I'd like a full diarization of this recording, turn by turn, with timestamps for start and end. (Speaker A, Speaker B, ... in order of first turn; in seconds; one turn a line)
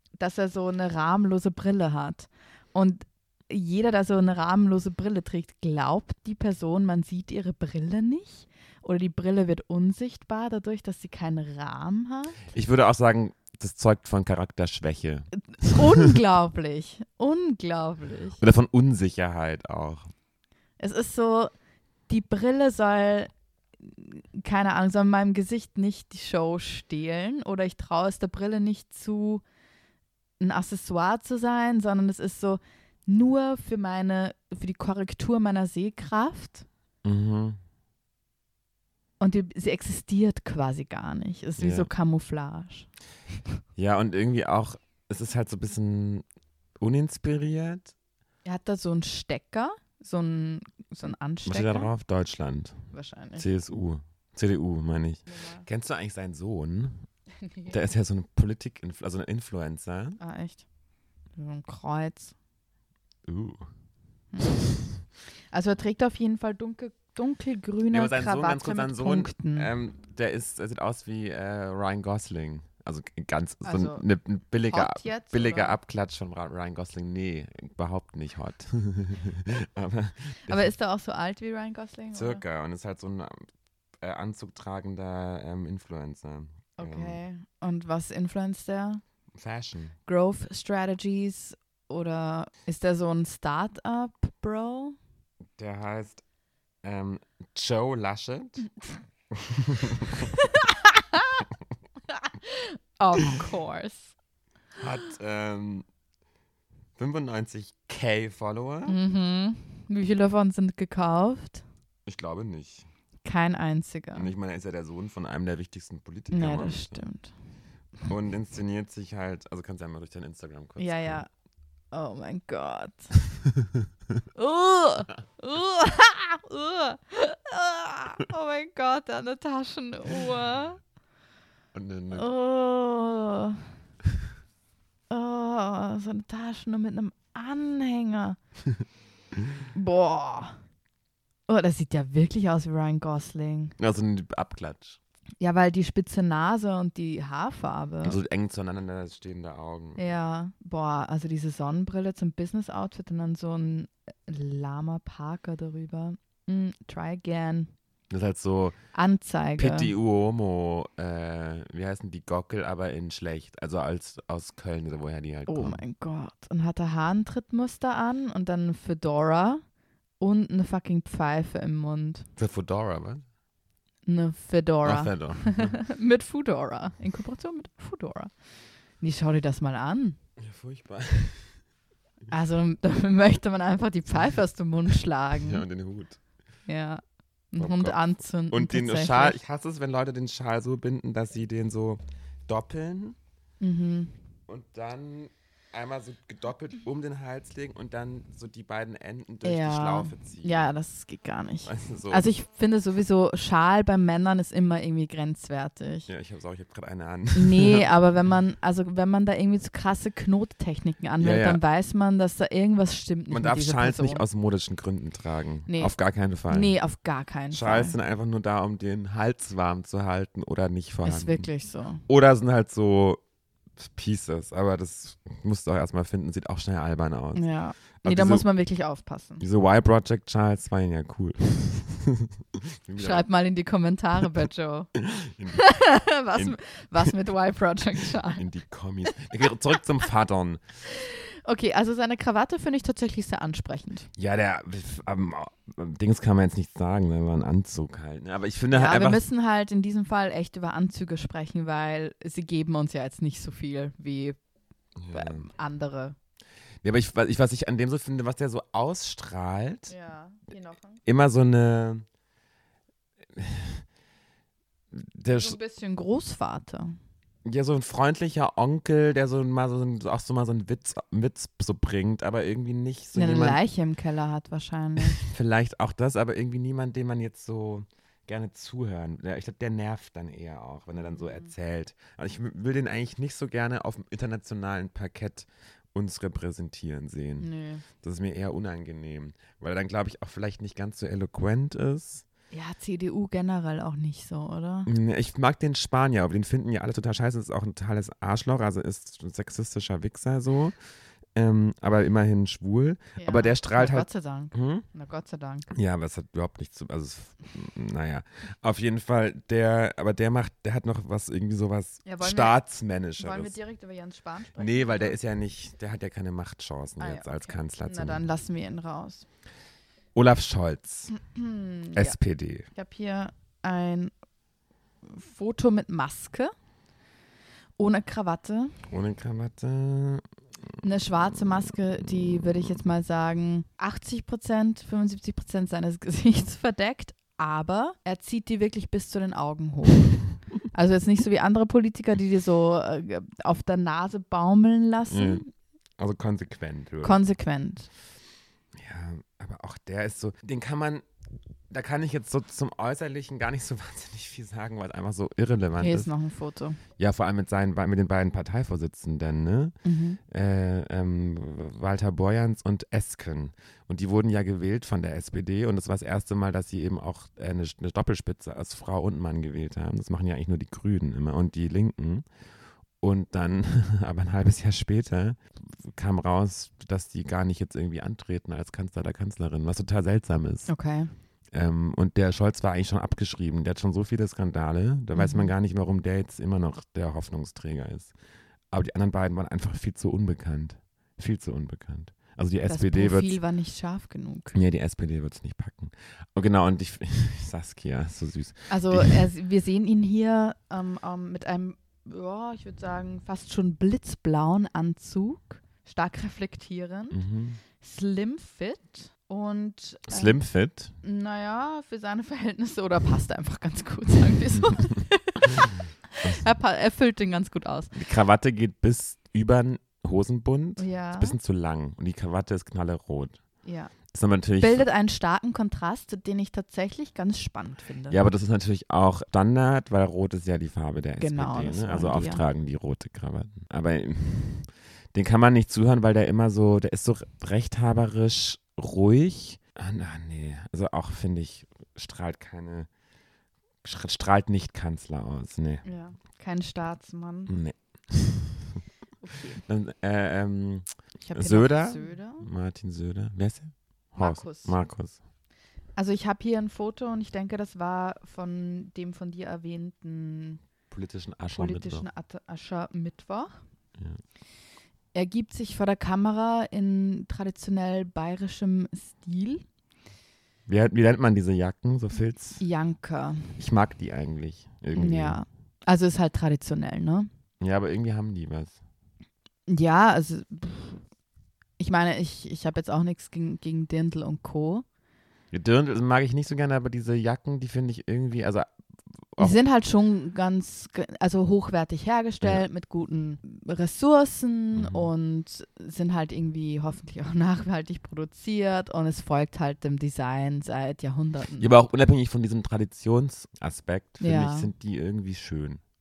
Speaker A: 0.2-12.4
Speaker B: 12.4-16.2
Speaker A: 15.4-18.4
Speaker B: 18.4-20.1
Speaker A: 20.8-21.5
Speaker A: 22.1-29.4
Speaker A: 30.4-36.6
Speaker B: 37.0-37.6
Speaker A: 39.2-42.9
Speaker B: 41.6-41.9
Speaker B: 43.8-46.2
Speaker B: 46.8-47.9
Speaker A: 48.4-51.9
Speaker B: 51.5-52.8
Speaker A: 52.9-53.5
Speaker B: 53.4-57.0
Speaker A: 55.3-55.6
Speaker A: 57.4-57.7
Speaker B: 57.7-60.2
Speaker A: 60.2-60.6
Speaker A: 61.4-62.3
Speaker B: 63.2-63.6
Speaker A: 64.3-64.7
Speaker A: 65.5-69.7
Speaker B: 67.9-80.7
Speaker A: 73.6-74.0
Speaker A: 74.7-75.8
Speaker A: 80.5-82.4
Speaker B: 82.1-83.5
Speaker B: 84.0-87.2
Speaker A: 86.8-89.0
Speaker B: 89.3-89.9
Speaker A: 90.0-95.0
Speaker B: 95.5-96.2
Speaker B: 96.8-98.7
Speaker B: 99.3-100.3
Speaker A: 100.2-101.4
Speaker A: 102.1-104.1
Speaker B: 104.8-105.8
Speaker B: 107.0-109.0
Speaker A: 108.9-111.6
Speaker B: 112.0-112.9
Speaker A: 113.2-114.3
Speaker B: 114.1-117.0
Speaker A: 116.3-117.3
Speaker B: 118.1-121.2
Speaker A: 120.8-121.3
Speaker A: 121.9-123.1
Speaker A: 124.3-130.8
Speaker B: 131.7-132.3
Speaker A: 132.1-133.6
Speaker A: 135.1-138.4
Speaker A: 139.7-140.6
Speaker A: 141.5-143.7
Speaker B: 143.8-145.0
Speaker A: 145.4-148.2
Speaker B: 148.0-150.0
Speaker A: 149.9-157.7
Speaker B: 158.1-158.8
Speaker A: 158.9-159.9
Speaker B: 159.6-165.8
Speaker A: 165.5-169.6
Speaker A: 170.2-172.3
Speaker B: 172.4-173.2
Speaker A: 174.1-178.3
Speaker B: 174.8-175.8
Speaker A: 179.0-180.2
Speaker B: 180.4-181.5
Speaker A: 182.3-185.6
Speaker B: 185.4-186.2
Speaker A: 186.7-189.4
Speaker B: 187.6-193.2
Speaker A: 193.6-194.1
Speaker B: 194.5-200.6
Speaker A: 199.4-206.1
Speaker B: 201.6-202.3
Speaker B: 206.1-207.8
Speaker A: 207.3-214.2
Speaker B: 211.2-211.6
Speaker B: 213.3-216.7
Speaker A: 215.7-215.9
Speaker A: 216.5-217.9
Speaker B: 217.5-221.5
Speaker A: 221.0-222.0
Speaker B: 222.1-223.2
Speaker B: 223.8-227.4
Speaker A: 227.3-229.4
Speaker B: 228.0-228.4
Speaker B: 229.4-233.2
Speaker A: 233.0-234.9
Speaker B: 234.9-235.6
Speaker A: 235.5-238.4
Speaker B: 236.3-237.1
Speaker B: 238.0-240.6
Speaker A: 240.9-244.1
Speaker B: 244.2-249.2
Speaker A: 248.7-254.4
Speaker B: 255.0-255.5
Speaker A: 255.1-256.1
Speaker B: 256.8-259.9
Speaker A: 259.9-261.0
Speaker B: 261.0-262.0
Speaker B: 263.3-263.8
Speaker B: 264.9-265.6
Speaker A: 265.3-267.0
Speaker B: 267.4-273.6
Speaker A: 273.1-275.2
Speaker B: 275.0-287.5
Speaker A: 281.0-281.5
Speaker A: 287.4-287.8
Speaker B: 288.0-292.2
Speaker A: 292.5-294.9
Speaker B: 294.9-300.7
Speaker B: 301.3-304.8
Speaker A: 303.2-305.7
Speaker B: 305.7-313.5
Speaker A: 312.0-312.6
Speaker A: 313.2-315.2
Speaker B: 314.6-318.2
Speaker A: 317.0-319.2
Speaker B: 320.1-321.1
Speaker A: 321.1-322.2
Speaker B: 321.9-322.7
Speaker A: 322.7-324.1
Speaker A: 325.0-326.5
Speaker A: 327.8-328.8
Speaker B: 328.9-330.2
Speaker A: 330.8-345.5
Speaker B: 345.1-345.4
Speaker B: 346.0-347.2
Speaker A: 347.0-347.9
Speaker B: 348.7-351.0
Speaker B: 351.7-356.1
Speaker A: 355.8-356.8
Speaker B: 357.0-372.2
Speaker A: 359.8-360.2
Speaker B: 373.0-380.7
Speaker A: 380.7-381.1
Speaker B: 381.5-388.1
Speaker A: 385.1-385.5
Speaker B: 388.7-393.3
Speaker A: 392.7-394.6
Speaker B: 394.5-399.2
Speaker A: 398.7-407.2
Speaker B: 407.1-407.6
Speaker A: 407.8-410.4
Speaker B: 410.1-410.9
Speaker A: 411.0-418.0
Speaker B: 417.9-423.4
Speaker A: 420.8-421.4
Speaker A: 423.6-423.9
Speaker B: 424.1-424.9
Speaker A: 424.6-428.2
Speaker B: 428.1-442.9
Speaker A: 431.2-432.4
Speaker B: 443.8-445.8
Speaker A: 445.8-447.6
Speaker B: 447.5-448.8
Speaker A: 449.2-449.6
Speaker B: 449.6-455.2
Speaker A: 451.2-452.5
Speaker A: 454.2-454.8
Speaker A: 455.9-460.6
Speaker B: 460.9-462.0
Speaker A: 461.5-463.6
Speaker A: 465.1-469.6
Speaker B: 470.7-472.6
Speaker A: 472.6-473.6
Speaker B: 473.6-475.4
Speaker A: 474.9-477.3
Speaker B: 477.6-478.8
Speaker A: 479.7-481.0
Speaker A: 481.8-484.8
Speaker B: 485.5-488.7
Speaker A: 489.4-501.7
Speaker B: 494.7-495.1
Speaker B: 501.6-505.8
Speaker A: 504.2-504.7